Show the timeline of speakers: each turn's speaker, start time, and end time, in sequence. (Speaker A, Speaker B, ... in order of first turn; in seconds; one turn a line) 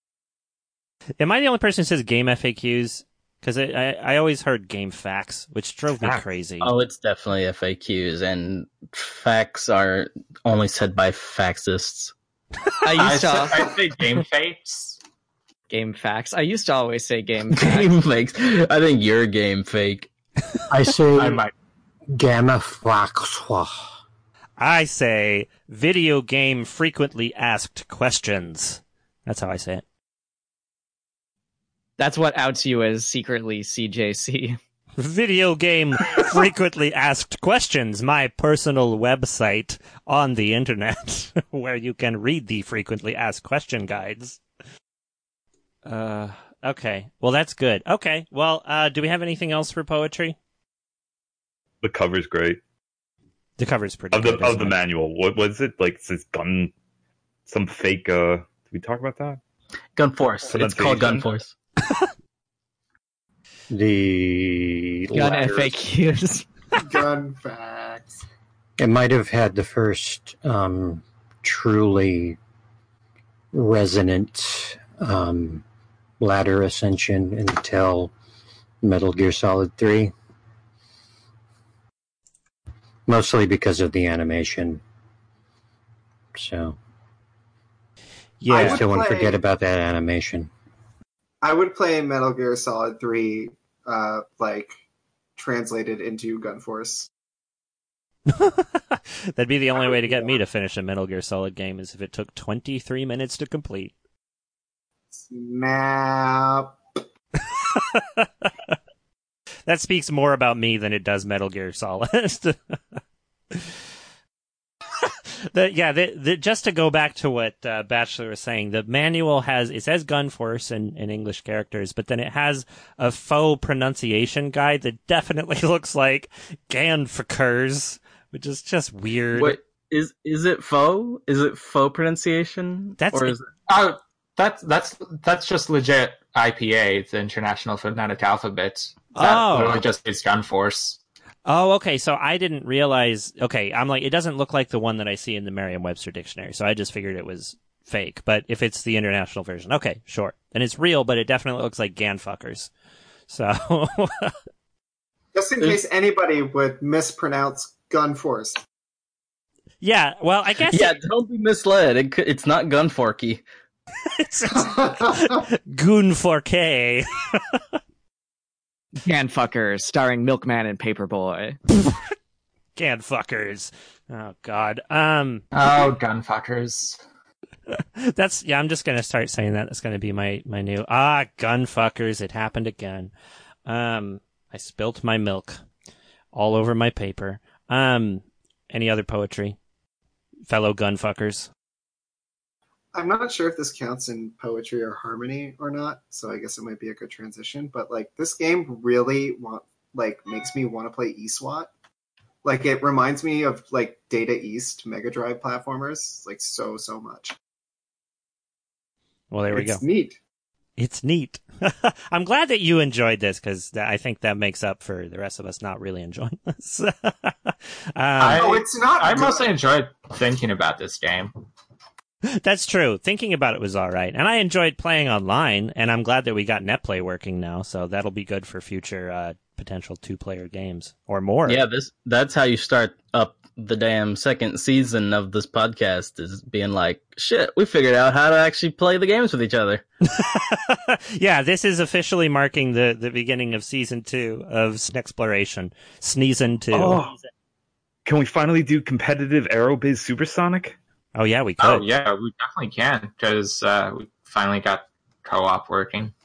Speaker A: 1.2-6.7
Speaker B: 6.0-12.1
Speaker C: 12.8-13.7
Speaker D: 12.9-15.0
Speaker C: 15.7-17.9
Speaker B: 17.5-20.1
Speaker E: 20.7-21.4
Speaker D: 21.2-21.5
Speaker E: 22.1-23.8
Speaker A: 24.6-29.8
Speaker C: 32.0-34.6
Speaker A: 35.0-44.4
Speaker A: 45.9-50.4
Speaker F: 51.8-52.6
Speaker A: 53.6-54.8
Speaker F: 54.1-56.7
Speaker F: 57.5-59.4
Speaker B: 60.0-61.5
Speaker F: 60.5-61.3
Speaker E: 63.7-65.8
Speaker C: 65.1-66.5
Speaker G: 66.8-68.2
Speaker E: 68.8-72.4
Speaker E: 73.5-75.6
Speaker E: 76.2-78.1
Speaker E: 78.8-80.1
Speaker E: 83.1-84.8
Speaker E: 86.3-86.8
Speaker A: 88.4-88.9
Speaker G: 88.5-89.3
Speaker E: 88.5-90.5
Speaker G: 91.4-94.7
Speaker G: 95.4-97.1
Speaker A: 98.3-103.9
Speaker G: 99.8-100.3
Speaker G: 105.2-106.8
Speaker A: 107.6-108.5
Speaker A: 109.7-112.8
Speaker A: 115.5-129.6
Speaker B: 129.3-133.5
Speaker A: 133.0-133.4
Speaker D: 133.7-141.0
Speaker A: 139.2-139.8
Speaker A: 141.5-152.7
Speaker A: 153.3-154.3
Speaker G: 155.3-158.6
Speaker A: 159.8-161.0
Speaker B: 160.7-163.4
Speaker A: 164.1-167.6
Speaker G: 164.7-164.9
Speaker C: 169.0-171.6
Speaker A: 172.8-175.4
Speaker D: 175.5-177.0
Speaker A: 177.7-183.1
Speaker A: 183.7-185.6
Speaker A: 186.3-189.6
Speaker A: 190.5-191.5
Speaker G: 192.9-201.7
Speaker G: 202.4-207.3
Speaker A: 209.3-209.8
Speaker G: 209.5-210.2
Speaker A: 210.8-218.5
Speaker D: 218.2-221.3
Speaker G: 218.3-219.5
Speaker A: 222.3-231.6
Speaker B: 231.5-239.8
Speaker A: 240.1-247.0
Speaker F: 246.7-247.2
Speaker F: 248.1-250.8
Speaker A: 251.2-251.8
Speaker D: 251.6-256.1